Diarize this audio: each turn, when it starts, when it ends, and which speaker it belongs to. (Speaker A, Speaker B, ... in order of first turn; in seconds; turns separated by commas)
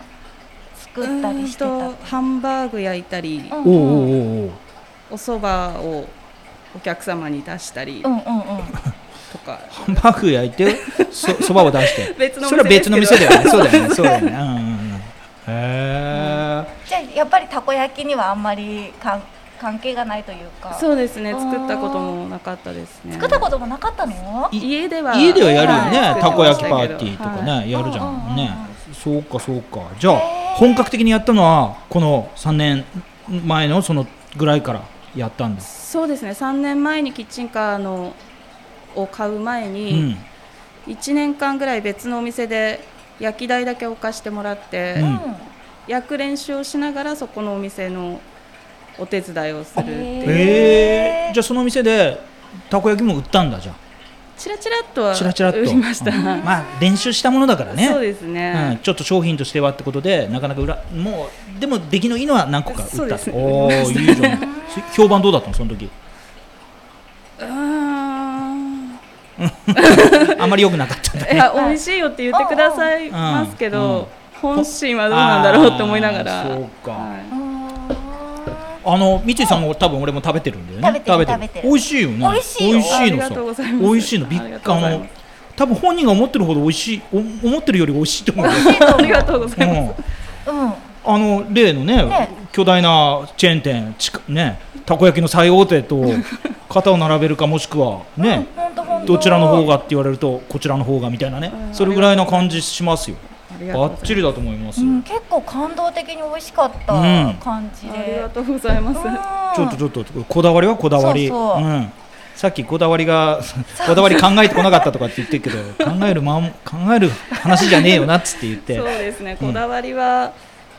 Speaker A: 0.8-2.2, Speaker B: 1.0-3.9, Speaker A: 3.5-4.2, Speaker C: 3.6-4.6, Speaker B: 5.1-6.1, Speaker B: 6.7-8.1, Speaker A: 8.0-8.8, Speaker B: 9.3-10.0, Speaker C: 9.7-16.7, Speaker B: 10.7-14.4, Speaker A: 16.9-22.1, Speaker B: 20.7-23.4, Speaker A: 23.1-24.6, Speaker C: 24.5-35.6, Speaker B: 24.5-27.5, Speaker A: 25.4-26.9, Speaker A: 27.7-28.7, Speaker A: 30.1-30.9, Speaker B: 35.6-38.2, Speaker B: 38.9-40.1, Speaker C: 39.9-40.2, Speaker B: 40.9-45.1, Speaker A: 45.0-45.5, Speaker C: 45.0-45.2, Speaker B: 45.9-48.2, Speaker B: 49.0-50.9, Speaker A: 49.8-51.4, Speaker C: 50.2-53.8, Speaker B: 54.4-56.5, Speaker C: 55.1-58.0, Speaker A: 56.1-56.5, Speaker B: 57.7-58.8, Speaker C: 58.5-65.9, Speaker B: 62.7-64.5, Speaker A: 63.5-65.2, Speaker B: 67.4-69.0, Speaker C: 69.4-71.5, Speaker B: 69.7-70.5, Speaker B: 71.2-77.3, Speaker A: 71.5-71.8, Speaker A: 72.3-72.9, Speaker C: 73.1-77.1, Speaker A: 77.3-78.8, Speaker C: 78.8-85.0, Speaker A: 80.8-83.1, Speaker B: 82.8-85.1, Speaker C: 85.6-90.0, Speaker A: 88.4-89.3, Speaker B: 88.4-90.0, Speaker A: 90.4-90.9, Speaker C: 91.0-98.5, Speaker A: 92.0-92.3, Speaker A: 98.2-99.7, Speaker B: 98.8-99.7, Speaker C: 99.0-105.0, Speaker B: 101.5-102.6, Speaker B: 103.3-104.3, Speaker A: 104.8-108.3, Speaker C: 106.9-107.4, Speaker B: 107.8-109.2, Speaker A: 108.9-109.8, Speaker C: 109.5-119.6, Speaker A: 111.0-111.7, Speaker A: 113.8-114.8, Speaker A: 117.5-118.0, Speaker B: 118.6-120.3